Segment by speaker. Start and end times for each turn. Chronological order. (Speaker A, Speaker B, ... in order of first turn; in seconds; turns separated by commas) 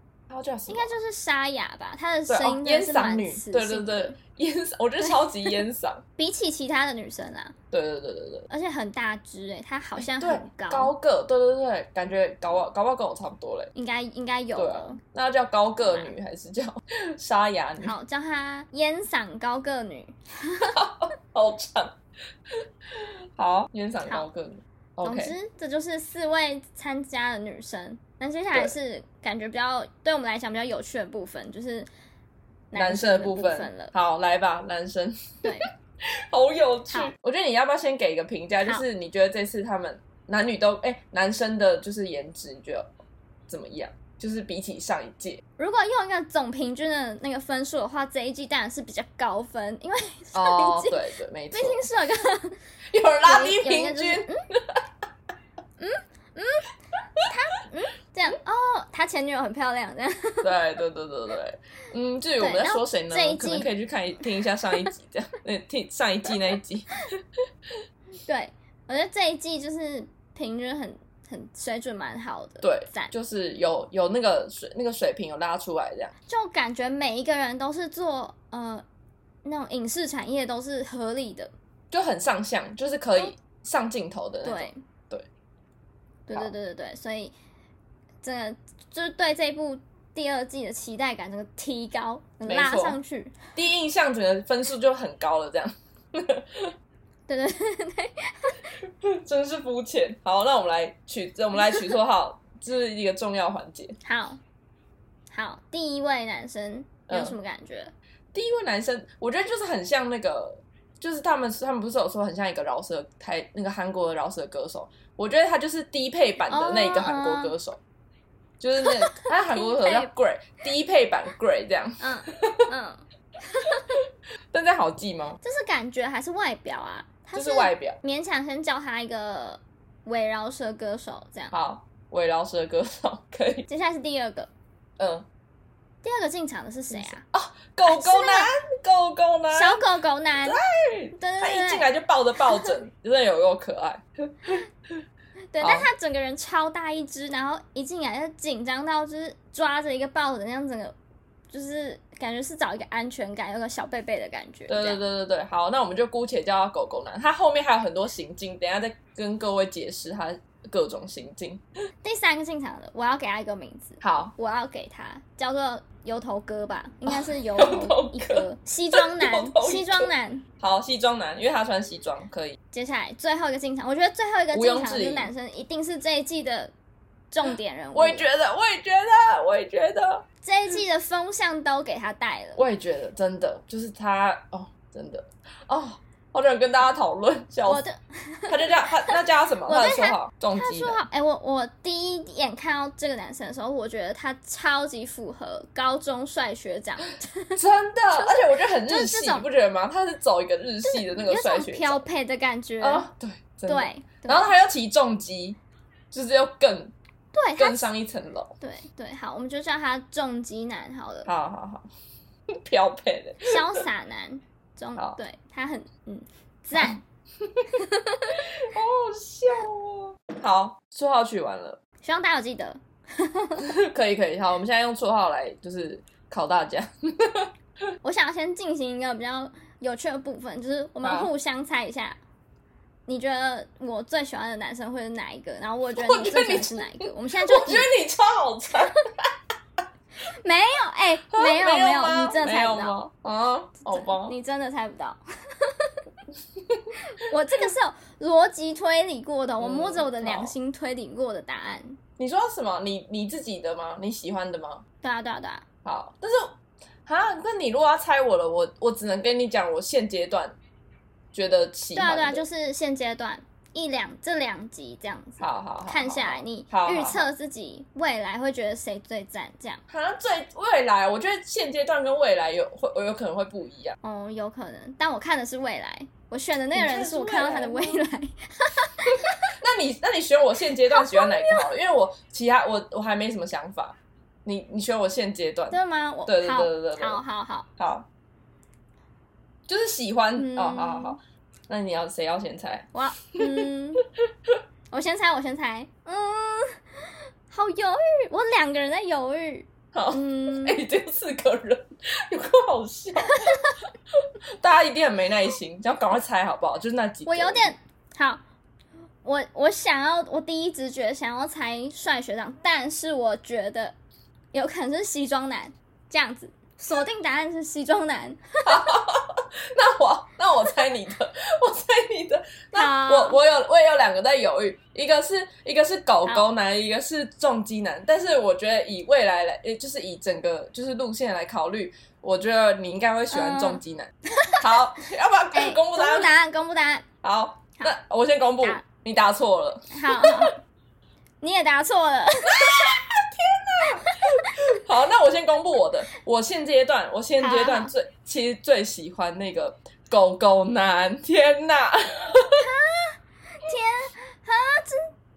Speaker A: 0.3-0.9, Speaker B: 0.7-4.2, Speaker A: 2.3-6.0, Speaker B: 5.0-5.6, Speaker B: 6.2-7.5, Speaker A: 7.7-8.5, Speaker B: 8.5-10.9, Speaker A: 10.0-13.7, Speaker B: 13.8-15.0, Speaker A: 14.6-17.9, Speaker B: 15.8-16.1, Speaker B: 17.8-20.8, Speaker A: 20.7-21.9, Speaker A: 22.9-25.4, Speaker B: 25.0-31.9, Speaker B: 32.7-33.9, Speaker A: 32.8-35.6, Speaker B: 35.4-35.7, Speaker A: 36.3-42.9, Speaker A: 43.5-45.4, Speaker B: 45.6-51.0, Speaker A: 50.3-51.9, Speaker B: 51.5-52.6, Speaker A: 52.9-54.8, Speaker B: 53.2-54.4, Speaker B: 55.8-60.5, Speaker A: 60.4-67.0, Speaker B: 62.4-63.7, Speaker B: 68.3-73.1, Speaker A: 72.6-76.1, Speaker B: 76.3-78.8, Speaker B: 79.5-81.5, Speaker A: 81.9-85.3, Speaker B: 84.4-84.8, Speaker B: 86.3-87.3, Speaker B: 88.2-93.4, Speaker A: 92.4-93.0, Speaker A: 93.5-96.7, Speaker B: 97.3-98.6, Speaker A: 98.8-104.0, Speaker B: 104.0-104.4, Speaker B: 105.3-107.9, Speaker A: 107.1-107.4, Speaker A: 108.3-117.8, Speaker B: 116.5-117.5, Speaker A: 118.6-122.7, Speaker B: 118.8-120.1, Speaker B: 122.0-124.0, Speaker A: 124.5-125.4, Speaker B: 125.4-131.5, Speaker A: 127.3-128.0, Speaker A: 131.5-133.7, Speaker B: 133.7-134.5, Speaker A: 135.0-135.3, Speaker B: 136.0-137.2, Speaker A: 136.9-139.8, Speaker B: 137.9-138.5, Speaker B: 139.5-140.6, Speaker A: 140.4-145.0, Speaker B: 141.2-141.9, Speaker B: 142.4-142.7, Speaker B: 145.5-150.9, Speaker A: 145.6-145.9, Speaker B: 151.5-155.0, Speaker A: 154.7-161.6, Speaker B: 162.0-170.4, Speaker A: 164.0-164.3, Speaker A: 167.1-172.6, Speaker B: 172.7-176.7, Speaker A: 174.5-175.3, Speaker B: 177.3-178.3, Speaker A: 177.9-180.2, Speaker B: 180.4-182.6, Speaker A: 182.6-187.8, Speaker B: 187.7-189.2, Speaker A: 188.5-191.0, Speaker B: 189.7-197.6, Speaker A: 197.6-202.1, Speaker B: 198.2-199.4, Speaker B: 200.8-203.1, Speaker A: 202.8-205.6, Speaker B: 203.7-204.5, Speaker A: 206.1-206.9, Speaker B: 207.3-207.9, Speaker A: 207.6-208.6, Speaker B: 208.6-211.3, Speaker A: 211.3-211.9, Speaker A: 212.5-213.8, Speaker B: 213.4-217.0, Speaker A: 216.8-217.7, Speaker B: 217.8-218.4, Speaker A: 218.6-221.8, Speaker B: 222.0-223.7, Speaker A: 223.6-227.5, Speaker B: 228.0-232.2, Speaker A: 231.0-231.3, Speaker B: 233.1-237.9, Speaker A: 236.0-239.3, Speaker B: 240.2-243.0, Speaker A: 241.3-244.3, Speaker B: 243.8-245.9, Speaker A: 246.6-246.9, Speaker B: 247.1-252.0, Speaker A: 249.6-250.5, Speaker A: 252.2-254.8, Speaker B: 255.0-255.6, Speaker A: 255.8-260.6, Speaker A: 261.3-262.4, Speaker B: 261.9-269.8, Speaker A: 265.4-267.3, Speaker A: 269.9-274.0, Speaker B: 274.0-279.5, Speaker A: 276.7-278.0, Speaker A: 279.5-287.2, Speaker B: 280.9-281.7, Speaker B: 285.7-287.7, Speaker A: 287.8-288.1, Speaker A: 289.7-292.9, Speaker B: 290.4-291.2, Speaker B: 292.9-294.0, Speaker A: 293.4-293.7, Speaker B: 294.9-296.8, Speaker B: 297.5-300.8, Speaker A: 299.9-303.7, Speaker B: 303.2-303.8, Speaker A: 304.6-307.7, Speaker B: 307.3-308.4, Speaker B: 309.2-313.9, Speaker B: 314.5-318.9, Speaker A: 318.6-336.3, Speaker B: 322.7-323.4, Speaker B: 333.3-333.8, Speaker B: 335.5-337.1, Speaker A: 337.2-340.5, Speaker B: 339.9-340.6, Speaker B: 341.4-342.7, Speaker A: 342.5-352.7, Speaker B: 344.0-344.5, Speaker B: 347.4-347.9, Speaker B: 352.6-355.1